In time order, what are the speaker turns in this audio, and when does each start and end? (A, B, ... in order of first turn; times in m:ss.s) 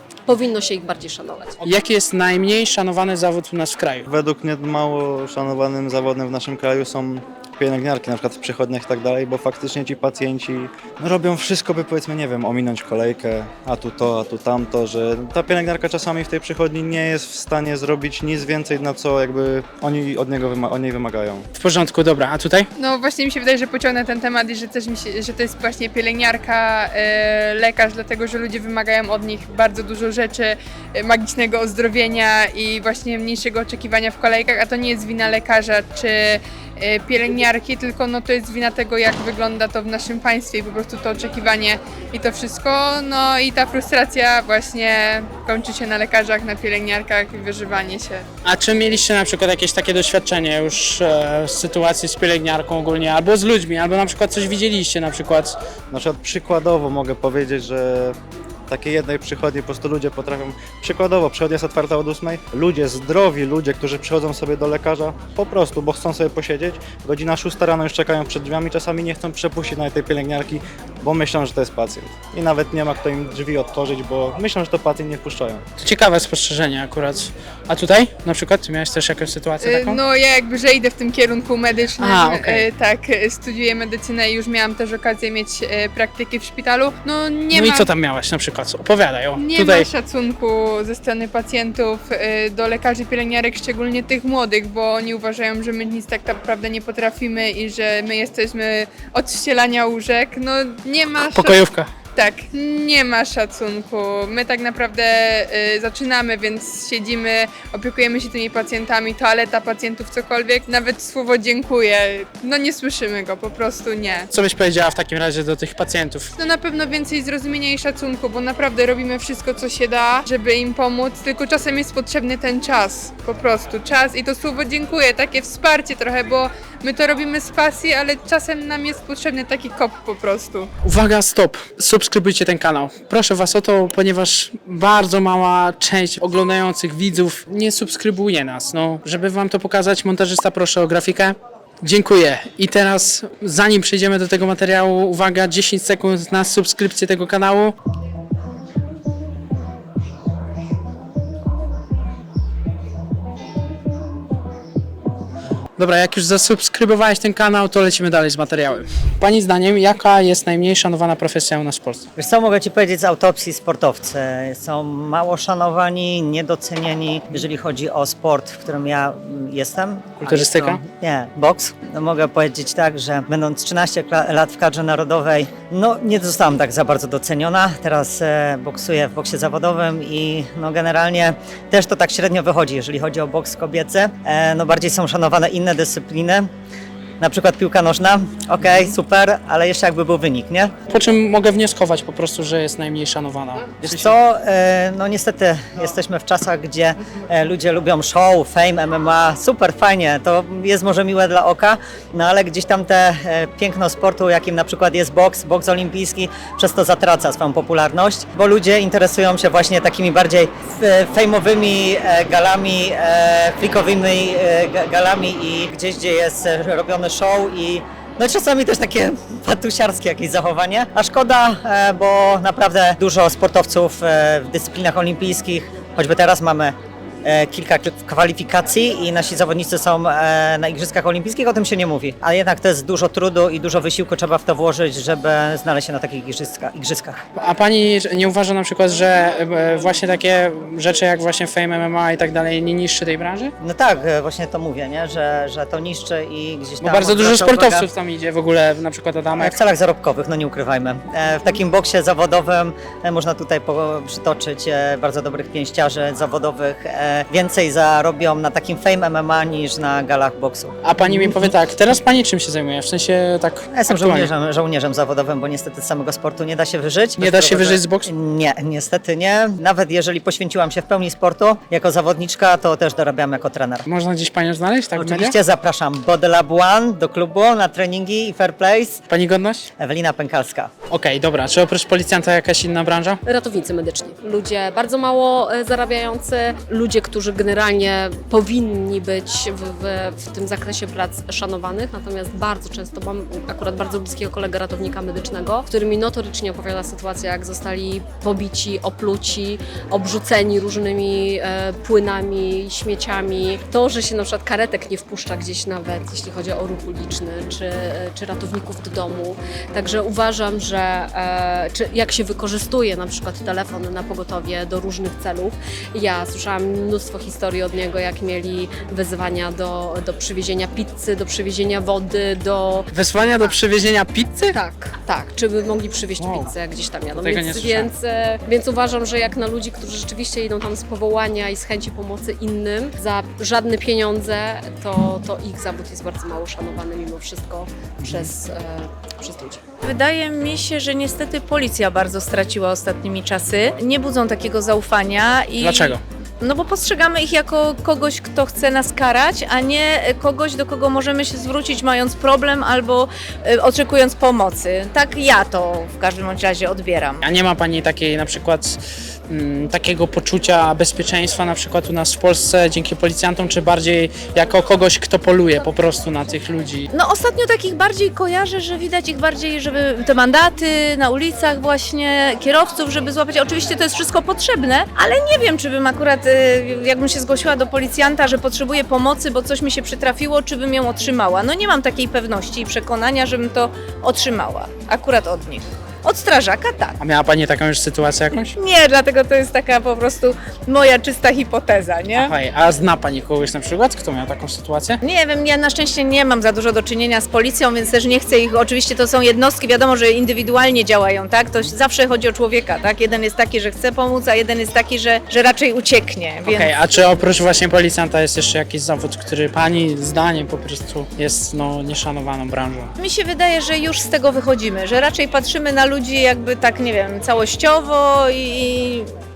0:00.3-0:01.6 A
0:01.6-0:04.0 B
0:04.1-0:21.5 C
0:21.6-0:22.7 B
0:22.8-0:48.2 D
0:48.4-0:55.6 B
0:55.9-0:58.2 C
0:58.7-1:15.6 C
1:15.8-1:20.0 B
1:19.6-1:27.9 D
1:22.0-1:22.6 B
1:27.5-1:29.9 B
1:29.4-1:41.6 D
1:41.3-1:41.9 B
1:42.2-1:54.3 D
1:54.3-1:56.3 B
1:56.4-2:10.7 D
2:10.8-2:27.8 B
2:35.8-2:42.0 B
2:42.2-3:06.5 E
2:50.2-2:50.8 B
3:07.2-3:10.7 E
3:10.9-3:14.2 B
3:13.8-3:57.2 E
3:57.4-4:03.5 B
4:03.6-4:07.9 E
4:06.8-4:09.6 B
4:09.4-4:21.2 E
4:20.8-4:24.3 B
4:23.8-4:33.9 E
4:27.2-4:28.1 B
4:33.9-4:35.4 B
4:35.0-4:39.0 E
4:39.1-4:39.7 B
4:39.8-4:40.7 E
4:40.9-4:43.2 B
4:43.3-5:22.9 A
5:22.9-5:24.6 B
5:24.5-5:39.6 A
5:26.2-5:26.5 B
5:27.2-5:27.9 B
5:38.0-5:38.3 B
5:39.8-5:57.2 F
5:45.6-5:46.0 B
5:57.2-5:58.8 B
5:59.3-6:06.9 B
6:06.9-6:27.0 F
6:27.0-6:28.6 B
6:28.6-6:32.3 F
6:32.2-6:35.0 B
6:35.0-6:46.7 F
6:46.5-6:52.9 B
6:53.0-6:59.1 F